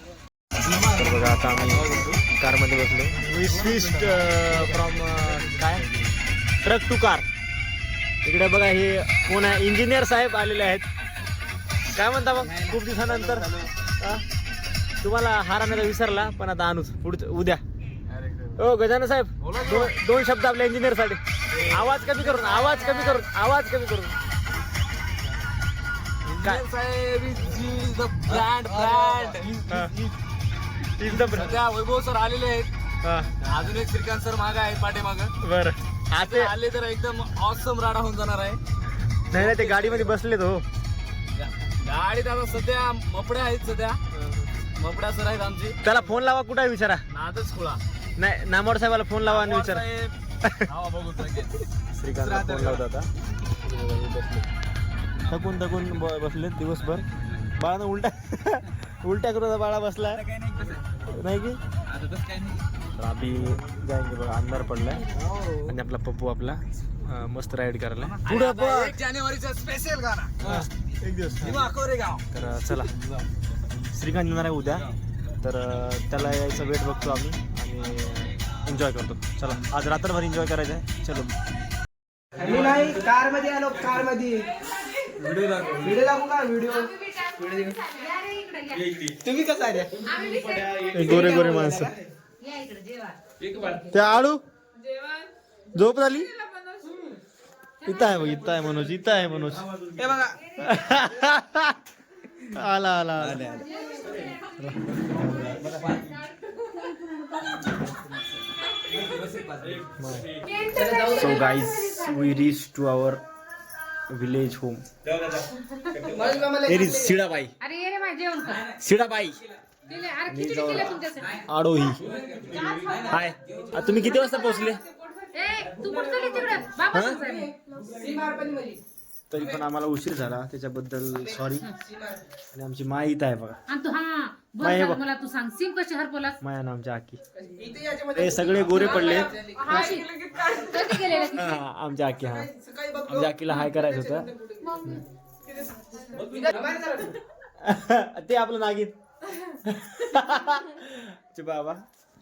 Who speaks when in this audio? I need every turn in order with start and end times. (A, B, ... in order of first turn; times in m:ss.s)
0:00.7-0:01.0 A
0:00.8-0:06.1 B
0:01.7-0:02.2 A
0:03.4-0:04.9 A
0:06.6-0:07.2 B
0:08.2-0:10.8 B
0:11.9-0:14.2 B
0:12.5-0:13.7 A
0:15.0-0:17.6 B
0:18.1-0:18.5 A
0:18.5-0:24.2 B
0:19.4-0:20.0 A
0:22.1-0:23.2 A
0:26.2-0:30.1 A
0:29.7-0:29.9 B
0:31.0-0:31.6 B
0:31.0-0:32.7 A
0:33.0-0:33.3 B
0:33.4-0:35.3 A
0:35.4-0:36.5 B
0:36.1-0:38.6 A
0:39.3-0:40.6 B
0:39.3-0:40.1 A
0:41.4-0:44.0 A
0:44.1-0:44.4 B
0:44.7-0:45.8 A
0:45.8-0:47.0 B
0:47.1-0:47.8 A
0:48.2-0:49.8 B
0:49.2-0:50.1 A
0:50.4-0:50.7 B
0:50.7-0:51.5 A
0:51.9-0:53.1 B
0:52.2-0:52.7 A
0:53.6-0:54.5 B
0:55.3-1:00.3 B
1:00.3-1:00.8 A
1:01.0-1:01.6 B
1:01.9-1:02.5 A
1:02.9-1:05.0 B
1:05.2-1:05.6 A
1:05.6-1:09.0 B
1:08.2-1:10.6 A
1:10.4-1:11.7 B
1:11.4-1:12.2 A
1:12.3-1:12.9 B
1:13.8-1:14.9 B
1:15.4-1:21.3 B
1:22.4-1:24.5 C
1:25.2-1:26.0 A
1:25.8-1:27.9 C
1:27.9-1:28.8 D
1:29.2-1:30.1 C
1:30.1-1:30.6 D
1:30.3-1:31.1 A
1:30.8-1:31.9 B
1:32.4-1:33.2 D
1:33.4-1:33.8 A
1:33.9-1:34.4 B
1:35.7-1:36.3 B
1:37.8-1:39.6 B
1:40.0-1:40.4 C
1:40.6-1:41.8 B
1:42.4-1:43.6 B
1:43.2-1:44.2 A
1:44.4-1:45.6 B
1:45.6-1:46.0 A
1:49.5-1:49.8 A
1:50.0-1:50.3 B
1:50.7-1:51.2 C
1:51.0-1:53.2 B
1:54.1-1:54.8 B
1:56.0-1:56.3 A
1:56.2-1:56.8 C
1:56.5-1:57.5 B
1:57.6-1:58.6 D
1:58.7-1:59.4 B
1:59.9-2:01.3 D
2:00.3-2:02.1 B
2:03.0-2:04.8 B
2:05.3-2:07.5 D
2:06.9-2:07.2 B
2:07.9-2:08.8 C
2:09.3-2:11.7 B
2:12.5-2:13.6 B
2:13.7-2:16.4 D
2:14.6-2:15.0 B
2:16.4-2:17.2 B
2:17.6-2:18.2 C
2:18.1-2:19.4 B
2:18.7-2:19.7 C
2:19.6-2:20.1 D
2:20.6-2:21.4 D
2:21.2-2:22.5 B
2:22.6-2:23.0 C
2:23.1-2:25.0 B
2:26.4-2:27.2 C
2:27.6-2:29.0 B
2:29.6-2:31.8 B